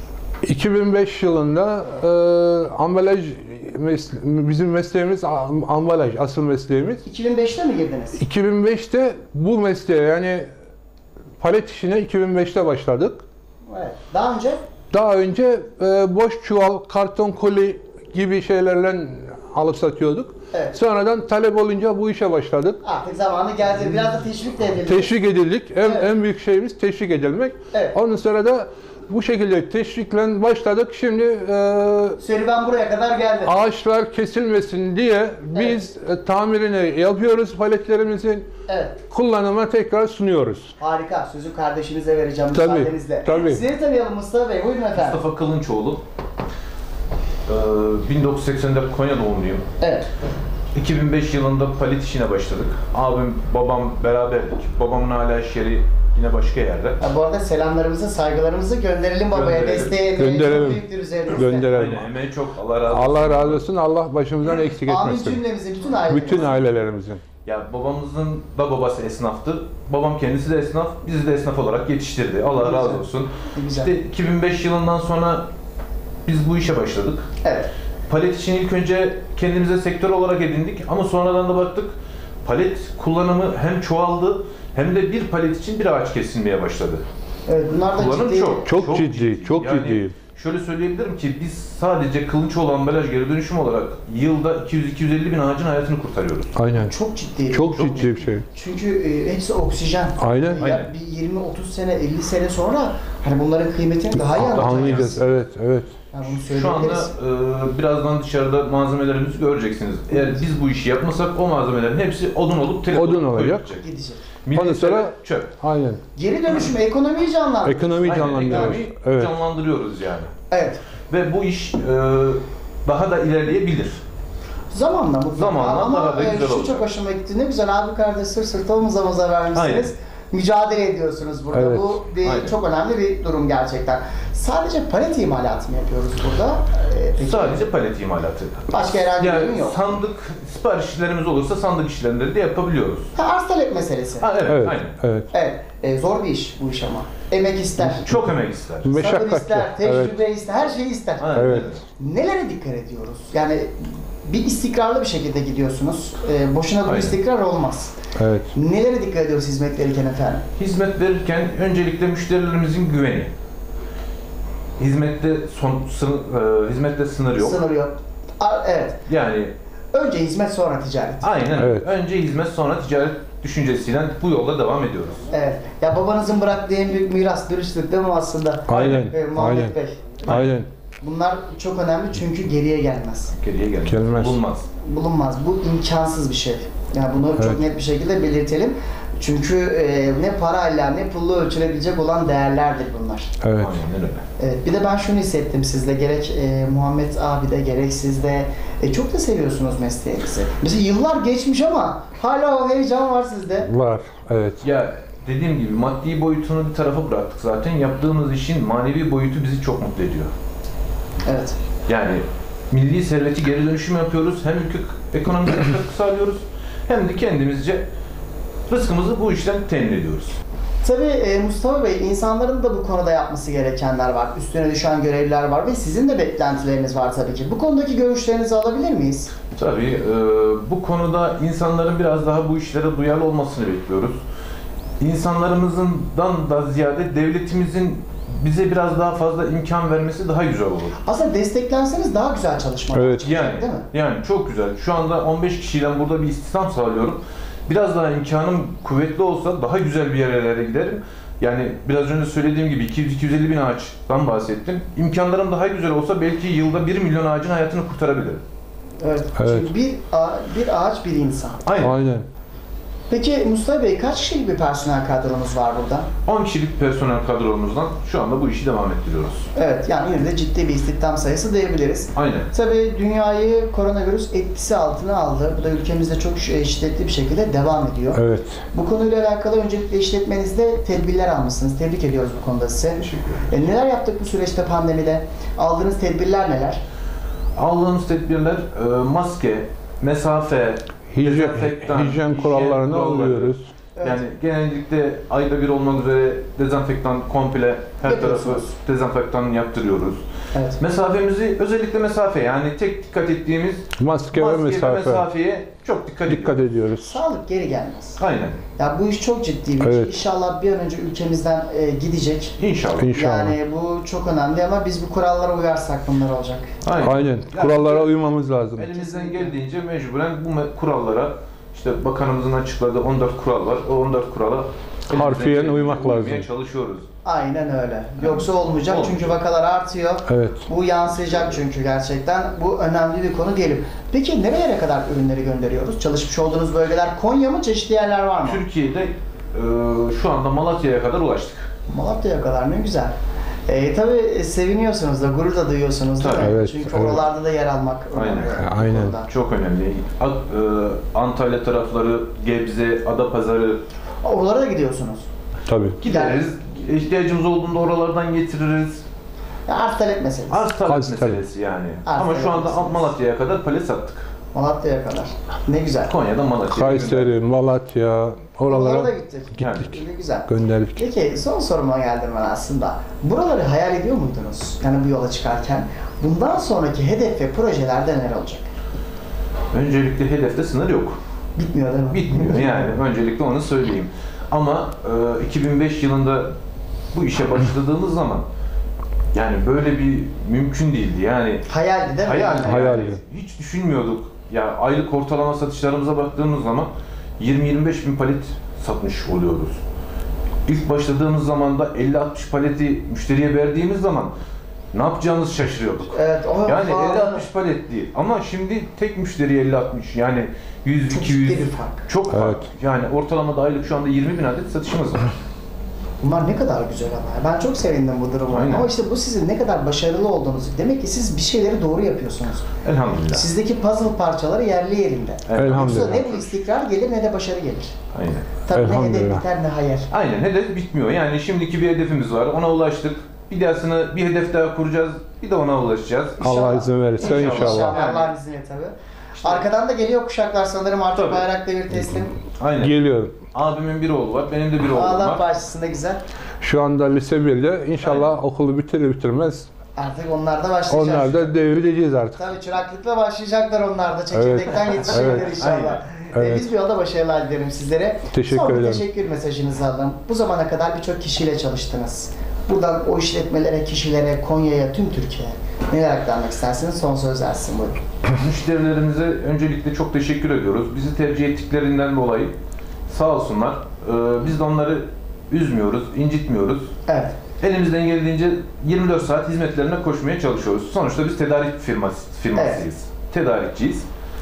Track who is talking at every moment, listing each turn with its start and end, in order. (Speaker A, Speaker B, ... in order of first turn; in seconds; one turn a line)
Speaker A: 0.4-7.0
Speaker B: 7.0-8.2
Speaker A: 8.2-10.5
Speaker A: 11.4-13.2
Speaker B: 13.7-14.6
Speaker A: 14.9-22.8
Speaker B: 20.5-20.8
Speaker B: 22.8-25.2
Speaker A: 24.9-32.2
Speaker B: 25.8-26.1
Speaker B: 32.2-33.6
Speaker A: 33.4-38.5
Speaker B: 35.5-35.8
Speaker B: 38.7-39.0
Speaker A: 39.1-40.7
Speaker B: 40.8-45.2
Speaker A: 42.5-43.6
Speaker C: 45.0-46.0
Speaker C: 47.5-49.6
Speaker B: 49.8-50.1
Speaker C: 50.7-57.0
Speaker B: 57.0-61.7
Speaker C: 59.3-60.0
Speaker A: 60.1-62.1
Speaker C: 61.7-63.6
Speaker A: 62.9-65.4
Speaker B: 64.8-66.5
Speaker A: 66.1-67.2
Speaker C: 67.4-75.5
Speaker B: 72.6-73.9
Speaker C: 76.2-77.3
Speaker B: 77.4-77.7
Speaker C: 78.1-81.9
Speaker C: 82.4-87.0
Speaker B: 87.5-88.7
Speaker C: 87.9-96.5
Speaker A: 88.6-90.2
Speaker A: 96.5-96.9
Speaker B: 96.8-105.2
Speaker A: 97.5-98.4
Speaker C: 97.8-98.1
Speaker A: 100.2-100.6
Speaker C: 100.6-100.9
Speaker A: 104.2-105.9
Speaker C: 104.3-105.3
Speaker B: 106.1-107.1
Speaker C: 106.5-113.8
Speaker A: 112.9-113.7
Speaker B: 113.8-114.2
Speaker C: 114.4-115.5
Speaker A: 114.5-116.0
Speaker B: 116.2-118.8
Speaker A: 117.6-119.3
Speaker C: 118.0-120.3
Speaker B: 120.5-120.8
Speaker C: 121.1-124.0
Speaker B: 124.7-137.6
Speaker C: 125.3-126.8
Speaker C: 129.5-129.9
Speaker A: 131.5-132.0
Speaker C: 132.2-132.5
Speaker C: 137.2-143.1
Speaker B: 138.7-139.9
Speaker B: 143.2-144.3
Speaker C: 144.2-145.0
Speaker A: 144.4-145.3
Speaker B: 145.3-148.2
Speaker C: 148.0-148.9
Speaker A: 148.8-150.2
Speaker B: 148.9-157.9
Speaker C: 151.2-151.8
Speaker A: 151.3-151.7
Speaker C: 156.8-157.1
Speaker A: 158.2-158.5
Speaker B: 158.5-160.4
Speaker C: 160.6-163.3
Speaker C: 164.8-167.6
Speaker B: 167.4-169.0
Speaker C: 169.1-169.5
Speaker B: 169.9-171.3
Speaker C: 171.2-175.2
Speaker A: 171.6-171.9
Speaker B: 175.3-180.0
Speaker A: 178.7-179.7
Speaker C: 178.7-179.1
Speaker C: 180.2-180.5
Speaker A: 180.3-180.7
Speaker B: 181.0-183.3
Speaker C: 183.3-184.7
Speaker A: 183.8-184.4
Speaker B: 184.8-193.3
Speaker A: 193.4-193.8
Speaker C: 193.6-194.2
Speaker B: 194.4-203.7
Speaker A: 203.6-204.6
Speaker C: 204.6-210.3
Speaker B: 211.2-211.6
Speaker C: 211.9-217.8
Speaker C: 218.7-220.3
Speaker B: 220.8-229.3
Speaker C: 229.5-234.2
Speaker C: 235.0-241.0
Speaker B: 241.0-243.9
Speaker A: 242.9-243.2
Speaker C: 243.2-258.4
Speaker B: 259.0-261.6
Speaker A: 259.4-259.7
Speaker C: 261.6-261.9
Speaker A: 261.8-262.2
Speaker B: 263.1-266.1
Speaker C: 266.2-269.5
Speaker B: 269.5-286.8
Speaker C: 272.1-272.5
Speaker A: 278.1-278.6
Speaker C: 283.0-283.5
Speaker C: 287.6-300.2
Speaker A: 291.1-293.7
Speaker B: 298.0-298.8
Speaker B: 300.5-300.8
Speaker C: 300.8-306.6
Speaker A: 304.0-305.2
Speaker A: 306.3-307.1
Speaker B: 307.0-308.2
Speaker C: 308.2-308.6
Speaker B: 308.8-312.6
Speaker A: 309.8-310.1
Speaker C: 312.6-313.1
Speaker A: 312.9-313.5
Speaker B: 313.1-316.7
Speaker C: 316.8-318.1
Speaker A: 317.0-318.9
Speaker C: 318.8-327.1
Speaker B: 318.9-319.5
Speaker A: 325.1-326.4
Speaker B: 327.2-338.6
Speaker C: 328.2-329.3
Speaker A: 330.3-330.6
Speaker C: 338.4-341.7
Speaker B: 341.9-343.1
Speaker B: 343.7-349.3
Speaker C: 346.2-346.6
Speaker A: 346.4-347.2
Speaker C: 348.1-348.7
Speaker A: 348.5-349.1
Speaker C: 349.3-353.8
Speaker B: 354.2-355.3
Speaker A: 355.7-356.0
Speaker C: 356.0-359.0
Speaker B: 356.0-356.4
Speaker B: 359.7-360.6
Speaker C: 360.5-364.3
Speaker A: 360.8-361.4
Speaker B: 362.0-363.1
Speaker B: 364.5-366.1
Speaker C: 366.1-367.3
Speaker A: 366.7-369.8
Speaker B: 368.7-378.7
Speaker C: 369.6-369.9
Speaker A: 370.5-371.0
Speaker C: 379.7-381.2
Speaker B: 381.6-382.9
Speaker C: 382.1-386.5
Speaker C: 387.1-388.4
Speaker C: 389.3-391.6
Speaker B: 391.7-393.2
Speaker C: 392.2-399.8
Speaker A: 392.6-393.2
Speaker C: 400.6-404.3
Speaker C: 404.9-415.3
Speaker B: 406.1-407.4
Speaker B: 411.1-412.1
Speaker A: 412.3-412.6
Speaker B: 416.2-422.7
Speaker C: 418.5-418.9
Speaker C: 422.8-423.4
Speaker B: 423.3-427.9
Speaker C: 425.5-426.6
Speaker A: 425.5-426.2
Speaker C: 428.1-428.5
Speaker B: 428.6-430.1
Speaker A: 428.7-429.4
Speaker C: 430.1-436.4
Speaker B: 436.4-442.3
Speaker A: 436.4-438.0
Speaker C: 437.2-438.3
Speaker C: 439.4-439.6
Speaker C: 441.1-441.5
Speaker C: 442.6-442.9
Speaker A: 442.8-443.4
Speaker C: 443.5-445.4
Speaker B: 444.9-446.2
Speaker A: 446.6-449.7
Speaker C: 448.0-448.3
Speaker B: 449.9-451.5
Speaker A: 450.9-452.4
Speaker B: 452.4-468.0
Speaker A: 454.3-455.5
Speaker C: 455.1-456.1
Speaker A: 456.3-456.6
Speaker A: 458.3-459.0
Speaker C: 468.3-472.5
Speaker C: 473.1-476.9
Speaker B: 477.1-477.3
Speaker C: 477.6-484.1
Speaker B: 482.5-482.8